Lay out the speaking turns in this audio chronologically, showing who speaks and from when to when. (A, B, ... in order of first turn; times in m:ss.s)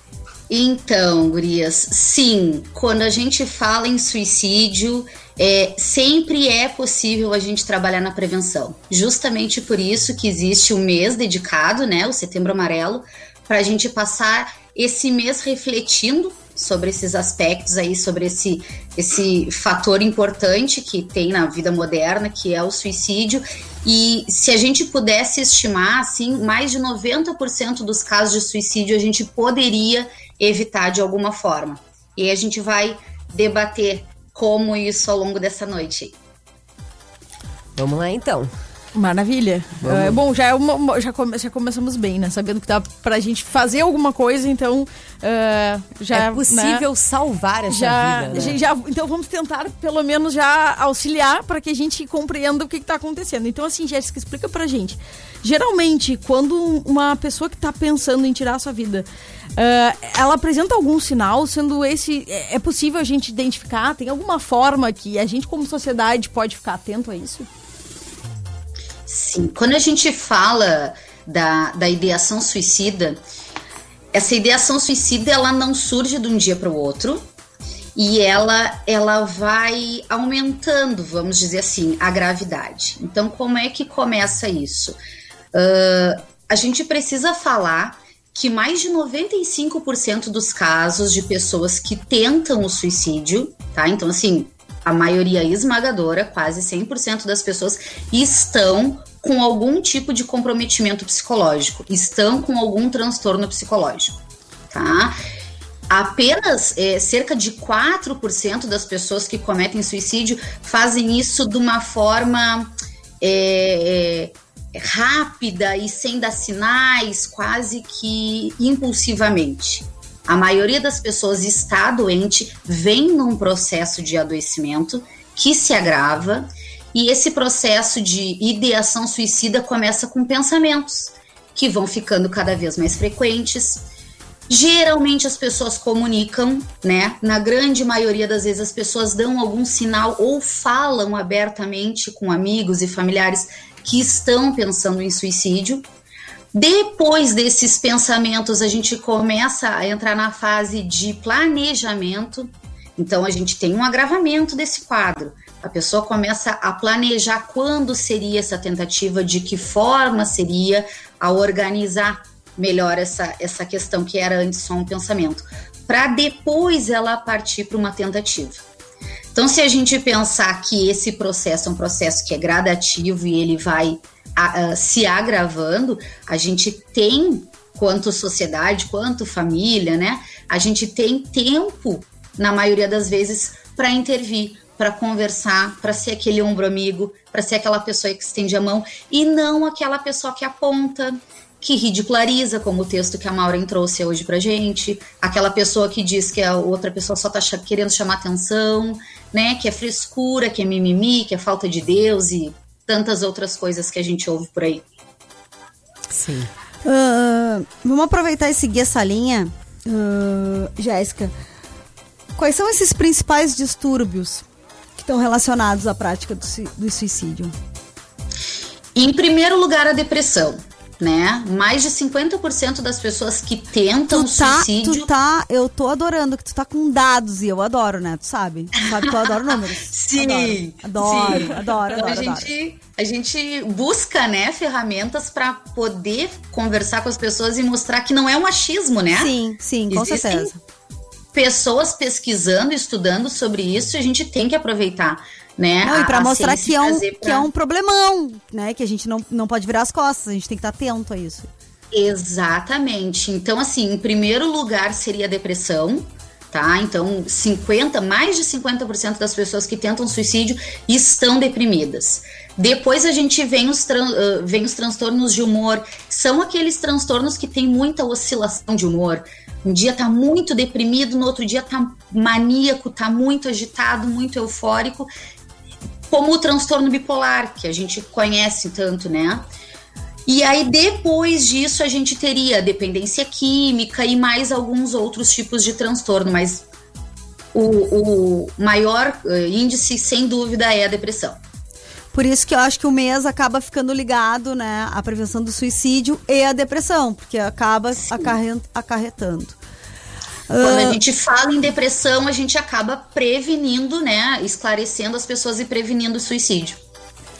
0:00.5-0:36.1 A
0:37.8-0:38.5 B
0:38.9-0:46.8 C
0:39.8-0:40.2 B
0:46.1-0:48.6 B
0:47.7-0:59.0 C
0:59.6-1:07.5 C
1:09.1-1:13.2 A
1:14.1-1:17.2 A
1:18.0-1:25.0 A
1:25.5-1:44.2 A
1:44.7-1:45.2 A
1:45.9-2:13.8 A
2:14.5-2:25.8 A
2:26.5-2:48.6 A
2:49.3-3:24.8 A
3:26.1-3:26.5 B
3:26.8-3:31.3 D
3:32.4-3:34.4 D
3:35.0-3:37.5 D
3:38.9-3:45.1 A
3:44.1-3:52.5 D
3:49.0-3:59.3 A
3:59.1-4:00.6 D
3:59.9-4:00.5 A
4:01.3-4:07.5 A
4:05.8-4:11.5 D
4:11.9-4:35.1 A
4:36.1-4:39.4 A
4:40.2-4:46.6 A
4:47.5-4:51.4 A
4:52.1-4:59.6 D
4:58.0-4:58.3 A
5:00.5-5:01.0 D
5:00.6-5:06.8 A